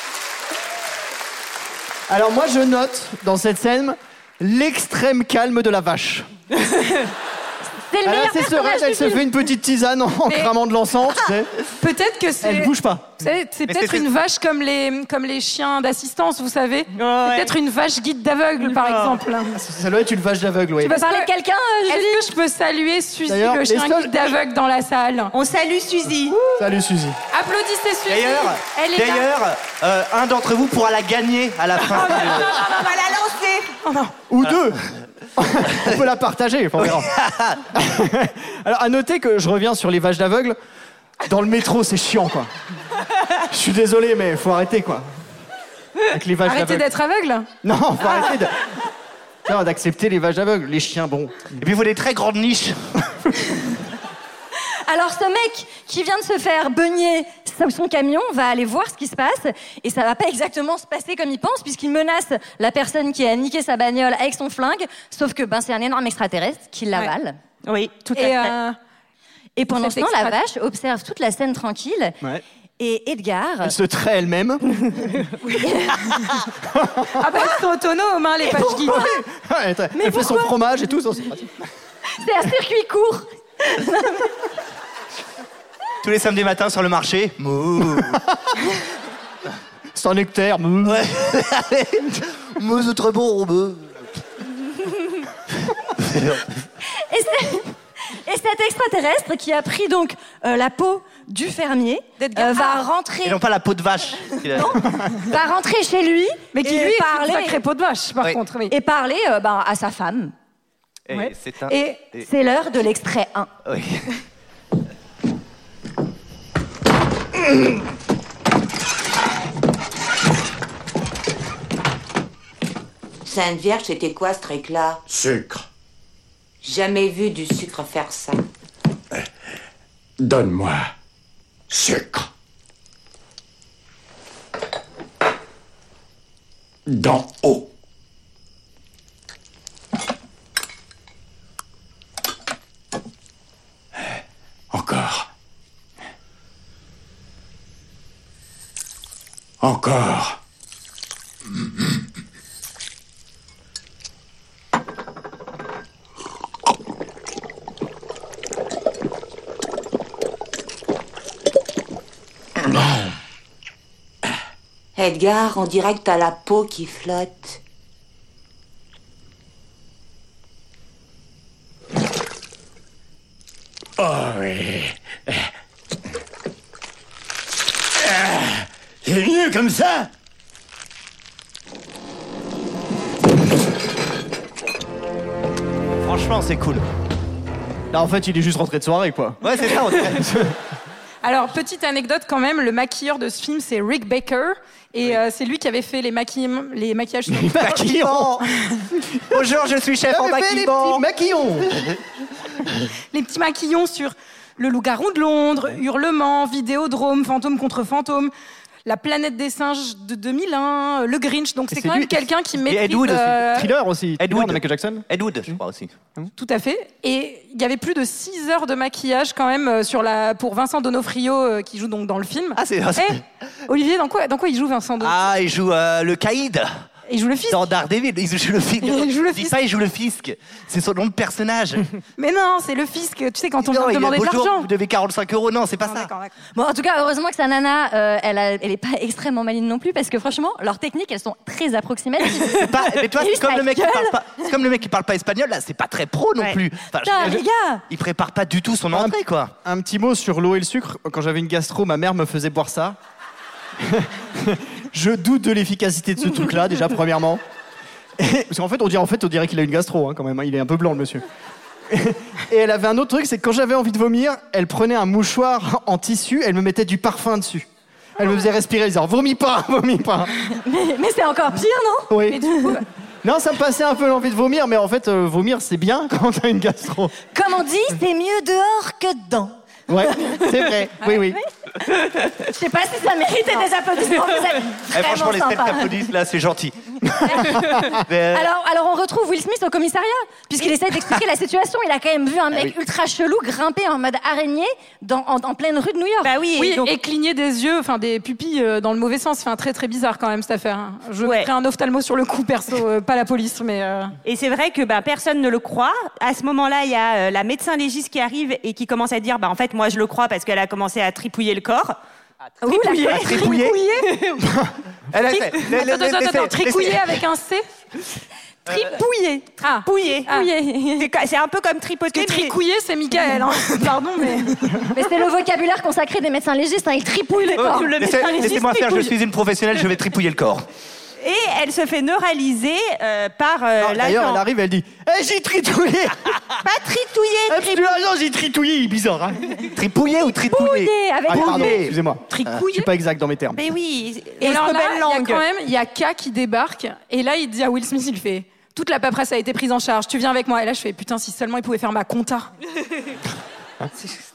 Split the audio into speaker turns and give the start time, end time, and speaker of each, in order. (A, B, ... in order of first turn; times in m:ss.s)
0:02.1-0:06.3 A
0:07.9-0:09.2 B
0:08.0-0:11.5 A
0:10.3-0:10.5 C
0:11.8-0:19.6 C
0:12.4-0:13.2 A
0:13.7-0:14.1 D
0:17.0-0:17.5 E
0:18.6-0:19.2 E
0:19.5-0:21.0 A
0:20.8-0:21.3 C
0:20.9-0:22.3 B
0:21.8-0:25.3 C
0:23.3-0:24.3 A
0:25.3-0:26.4 E
0:26.3-0:26.6 C
0:26.6-0:27.2 A
0:27.3-0:29.3 C
0:28.1-0:32.6 D
0:31.9-0:32.8 C
0:32.0-0:33.7 E
0:33.8-0:34.2 C
0:34.3-0:34.8 A
0:35.4-0:37.1 A
0:36.8-0:37.7 D
0:37.7-0:40.6 A
0:41.2-0:42.5 A
0:43.5-0:45.0 A
0:46.1-0:46.9 A
0:46.4-0:47.5 C
0:47.6-0:48.5 A
0:49.4-0:51.4 A
0:51.6-0:52.8 D
0:54.9-1:07.4 B
1:07.6-1:08.5 E
1:08.2-1:08.8 C
1:09.6-1:12.2 B
1:09.7-1:10.4 C
1:12.8-1:13.7 B
1:13.6-1:14.6 A
1:15.5-1:16.1 B
1:16.7-1:17.2 A
1:17.2-1:19.0 C
1:18.5-1:21.6 A
1:18.6-1:19.0 B
1:19.9-1:20.5 B
1:22.2-1:24.3 B
1:26.0-1:28.2 D
1:29.9-1:31.0 A
1:30.8-1:34.0 D
1:35.7-1:36.5 D
1:37.1-1:37.7 B
1:38.2-1:43.4 B
1:42.2-1:42.8 C
1:43.2-1:44.9 D
1:44.2-1:47.6 B
1:46.5-1:48.7 C
1:48.7-1:50.3 B
1:51.1-1:52.2 D
1:51.1-1:52.0 C
1:52.2-1:53.5 B
1:53.6-1:54.0 D
2:03.2-2:05.0 F
2:05.1-2:05.6 G
2:06.6-2:08.4 F
2:10.2-2:10.9 G
2:11.7-2:12.3 G
2:16.9-2:17.7 G
2:24.7-2:25.3 G
2:29.6-2:30.4 G
2:44.9-2:47.6 F
2:54.0-2:55.4 G
2:58.0-3:00.1 G
3:06.0-3:06.8 D
3:07.9-3:09.4 A
3:09.4-3:10.3 D
3:10.2-3:10.5 A
3:11.2-3:17.6 C
3:17.3-3:18.4 A
3:17.6-3:18.4 D
3:19.3-3:21.0 D
3:20.1-3:21.7 A
3:21.7-3:22.0 D
3:23.1-3:28.3 C
3:28.8-3:33.7 C
3:31.7-3:32.2 A
3:32.6-3:33.5 D
3:33.4-3:35.5 A
3:34.2-3:35.9 D
3:36.4-3:45.2 C
3:42.5-3:43.2 D
3:45.0-3:46.8 D
3:47.1-3:47.7 C
3:47.5-3:51.9 D
3:48.8-3:49.6 C
3:52.2-3:54.7 C
3:53.6-3:56.1 D
3:55.8-3:56.3 C
3:56.5-4:04.2 B
4:02.6-4:09.5 D
4:07.0-4:07.8 B
4:08.9-4:13.0 A
4:13.8-4:17.4 A
4:18.2-4:21.2 A
4:21.9-4:30.3 A
4:30.5-4:32.8 B
4:32.1-4:32.5 A
4:32.3-4:32.8 C
4:33.2-4:37.1 A
4:37.3-4:40.5 B
4:39.9-4:41.4 A
4:41.2-4:41.5 B
4:42.3-4:46.0 B
4:44.9-4:48.5 D
4:47.2-4:56.3 B
4:56.2-4:56.9 E
4:56.6-5:04.1 C
5:01.2-5:01.5 E
5:04.2-5:12.0 E
5:12.6-5:13.2 B
5:12.6-5:14.1 C
5:12.7-5:14.4 E
5:13.0-5:13.8 D
5:14.4-5:14.7 A
5:15.1-5:17.2 D
5:15.2-5:17.6 C
5:18.7-5:18.9 D
5:18.7-5:19.0 C
5:19.6-5:20.5 C
5:19.8-5:20.3 E
5:20.3-5:21.1 B
5:21.0-5:22.6 E
5:22.1-5:24.9 C
5:24.9-5:28.4 B
5:27.5-5:29.2 E
5:27.6-5:30.6 D
5:31.2-5:34.4 E
5:33.8-5:36.4 A
5:36.6-5:37.9 E
5:37.5-5:39.4 A
5:39.7-5:41.9 D
5:40.4-5:41.8 B
5:41.3-5:43.6 A
5:42.3-5:42.9 C
5:43.5-5:45.4 E
5:44.4-5:52.5 C